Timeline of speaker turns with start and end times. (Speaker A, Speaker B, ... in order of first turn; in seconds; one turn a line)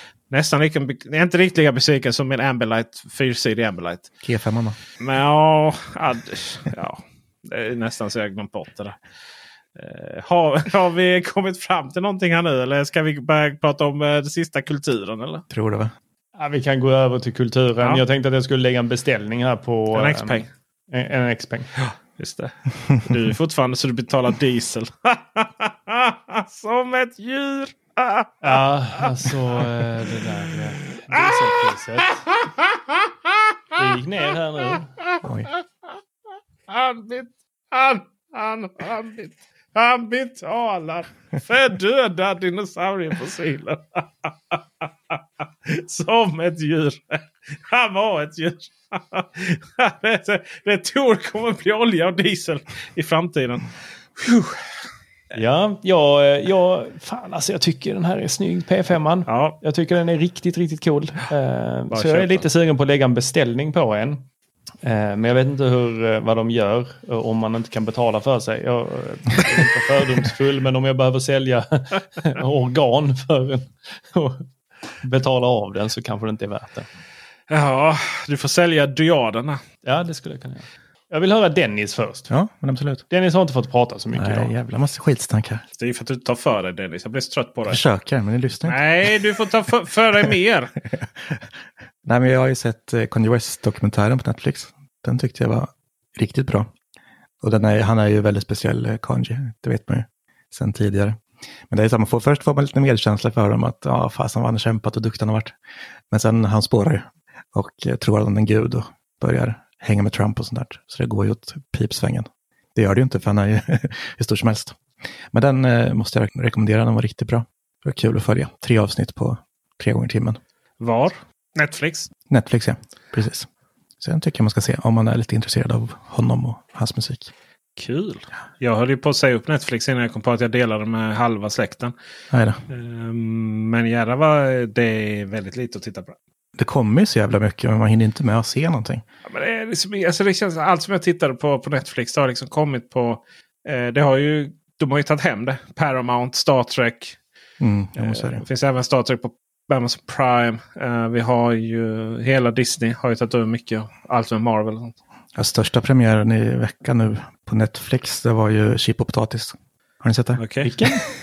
Speaker A: 0.3-4.1
Speaker B: 4.2-4.8
Speaker A: 5.0-9.0
Speaker A: 9.8-15.4
Speaker B: 15.5-15.9
Speaker C: 16.4-21.7
Speaker A: 19.9-20.5
Speaker A: 22.2-29.3
Speaker C: 28.4-32.2
Speaker A: 31.1-31.5
Speaker A: 32.3-33.8
Speaker C: 33.8-34.9
Speaker A: 35.0-35.6
Speaker B: 35.2-35.5
Speaker A: 36.7-54.6
Speaker C: 55.3-64.2
Speaker A: 59.3-59.6
Speaker A: 61.9-62.5
Speaker C: 64.8-74.5
Speaker C: 75.0-76.9
Speaker A: 77.5-79.6
Speaker C: 79.8-82.3
Speaker B: 82.3-83.0
Speaker C: 83.1-84.5
Speaker B: 84.1-85.6
Speaker A: 85.8-87.8
Speaker B: 87.7-89.2
Speaker A: 88.7-90.7
Speaker B: 90.9-91.5
Speaker B: 92.0-96.7
Speaker B: 97.4-105.5
Speaker B: 106.1-114.8
Speaker B: 115.3-120.4
Speaker A: 120.8-122.1
Speaker B: 122.3-123.5
Speaker B: 124.0-127.3
Speaker A: 127.8-131.9
Speaker B: 132.3-132.6
Speaker A: 132.7-136.2
Speaker B: 136.6-139.0
Speaker A: 139.3-147.2
Speaker B: 147.6-148.4
Speaker A: 148.0-154.9
Speaker B: 155.3-161.0
Speaker A: 160.4-160.8
Speaker C: 160.6-161.0